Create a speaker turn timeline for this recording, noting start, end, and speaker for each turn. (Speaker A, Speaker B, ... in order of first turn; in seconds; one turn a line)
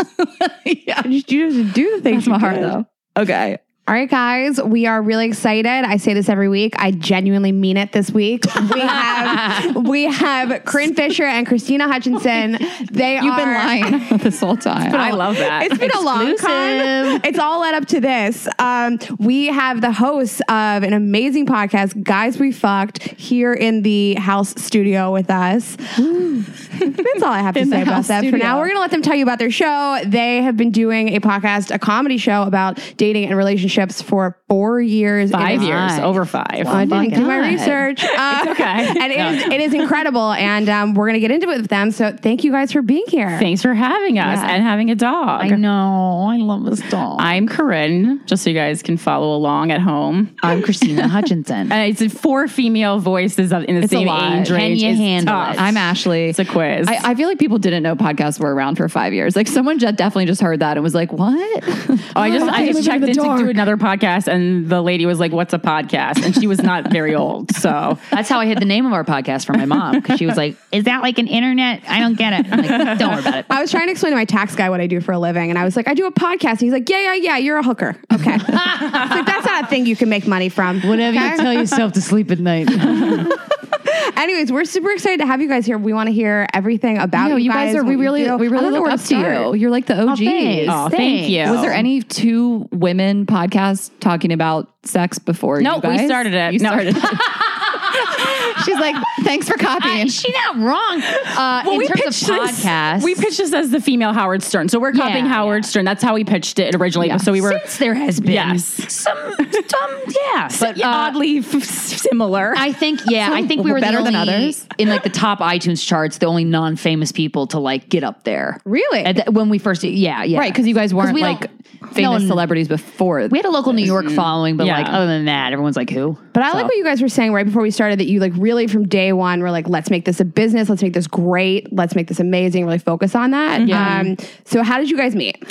Speaker A: 0.2-1.1
Speaker B: 1.0-2.8
Speaker A: 2.1-3.6
Speaker B: 3.8-14.0
Speaker A: 13.2-15.2
Speaker C: 14.9-16.1
Speaker B: 15.0-35.7
Speaker D: 16.1-16.7
Speaker A: 27.5-28.7
Speaker C: 35.3-36.8
Speaker D: 35.5-37.3
Speaker B: 36.7-43.5
Speaker A: 36.8-37.8
Speaker C: 38.0-39.9
Speaker D: 39.1-39.5
Speaker C: 43.4-45.6
Speaker A: 44.2-44.6
Speaker D: 45.4-47.4
Speaker C: 47.1-51.1
Speaker D: 50.4-51.7
Speaker C: 51.7-57.0
Speaker A: 53.8-54.6
Speaker D: 54.4-55.7
Speaker A: 55.5-63.3
Speaker C: 62.1-68.0
Speaker B: 62.2-63.5
Speaker D: 68.1-73.5
Speaker C: 72.6-73.0
Speaker B: 73.2-81.8
Speaker D: 80.8-83.3
Speaker B: 82.9-89.5
Speaker A: 87.1-100.2
Speaker D: 90.0-91.8
Speaker C: 90.7-91.8
Speaker C: 95.6-97.2
Speaker D: 99.8-103.2
Speaker C: 101.2-107.7
Speaker D: 104.9-105.7
Speaker D: 107.2-111.2
Speaker C: 108.2-112.7
Speaker D: 112.5-122.4
Speaker B: 113.2-114.5
Speaker B: 118.7-119.2
Speaker A: 120.3-123.9
Speaker D: 123.3-126.7
Speaker C: 123.8-125.0
Speaker B: 126.3-135.4
Speaker C: 133.6-134.1
Speaker A: 133.7-134.0